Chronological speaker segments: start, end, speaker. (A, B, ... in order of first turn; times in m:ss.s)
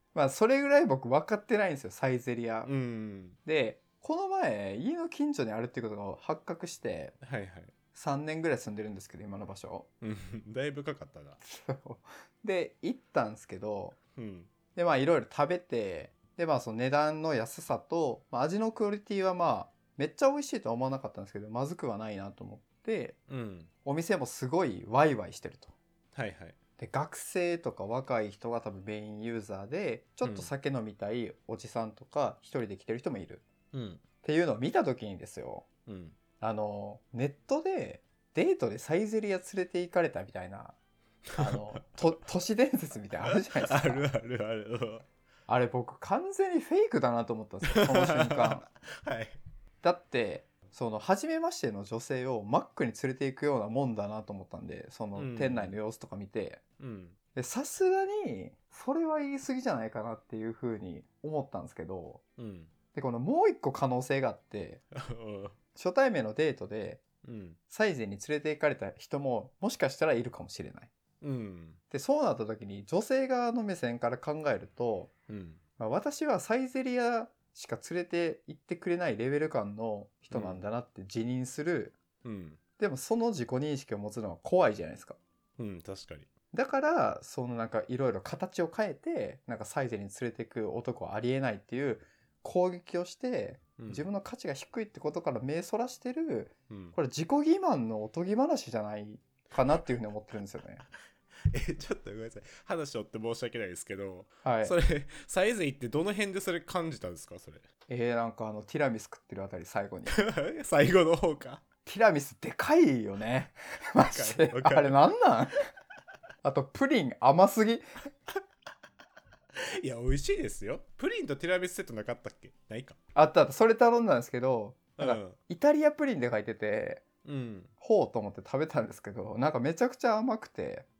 0:00.1-0:02.7 A
0:02.6-0:03.4 B
0:03.4-0:07.1 A
0:07.2-0:07.7 B
0:07.9-0:09.9 A
0:10.0-0:11.4 B
0:11.4-0:14.0 A
0:14.2-0:14.5 B
0:14.7-0:23.2 A
0:23.3-0:23.7 B
0:23.8-0:25.7 A
0:26.1-0:26.6 B
0:26.8-0:33.4 A
0:30.2-0:30.5 B
0:33.7-0:34.0 B
0:34.2-0:35.6 A
0:35.9-0:36.2 B
0:36.4-0:40.7 A
0:41.3-0:41.8 B
0:41.4-0:44.0 A
0:43.3-0:45.0 B
0:45.5-0:48.6 A
0:47.6-0:49.4 B
0:49.8-0:56.6 A
0:55.1-0:55.8 B
0:56.8-0:57.2 B
0:57.3-1:02.2 A
1:02.4-1:02.7 B
1:02.9-1:04.8 A
1:04.9-1:05.6 B
1:05.8-1:07.0 A
1:07.2-1:07.6 B
1:07.7-1:10.9 A
1:11.2-1:11.8 B
1:11.9-1:15.1 A
1:15.3-1:15.6 B
1:15.8-1:22.0 A
1:20.3-1:20.6 B
1:22.2-1:22.6 B
1:22.8-1:25.2 A
1:25.6-1:26.3 B
1:26.5-1:40.8 A
1:33.8-1:34.1 B
1:36.7-1:36.9 B
1:41.5-1:47.6 B
1:44.4-1:44.7 A
1:47.9-1:50.2 A
1:50.1-1:51.6 B
1:51.8-1:55.6 A
1:54.0-1:55.0 B
1:56.4-1:57.8 A
1:59.6-2:03.0 B
2:03.1-2:07.0 A
2:05.0-2:05.4 B
2:07.2-2:07.7 B
2:07.8-2:10.8 A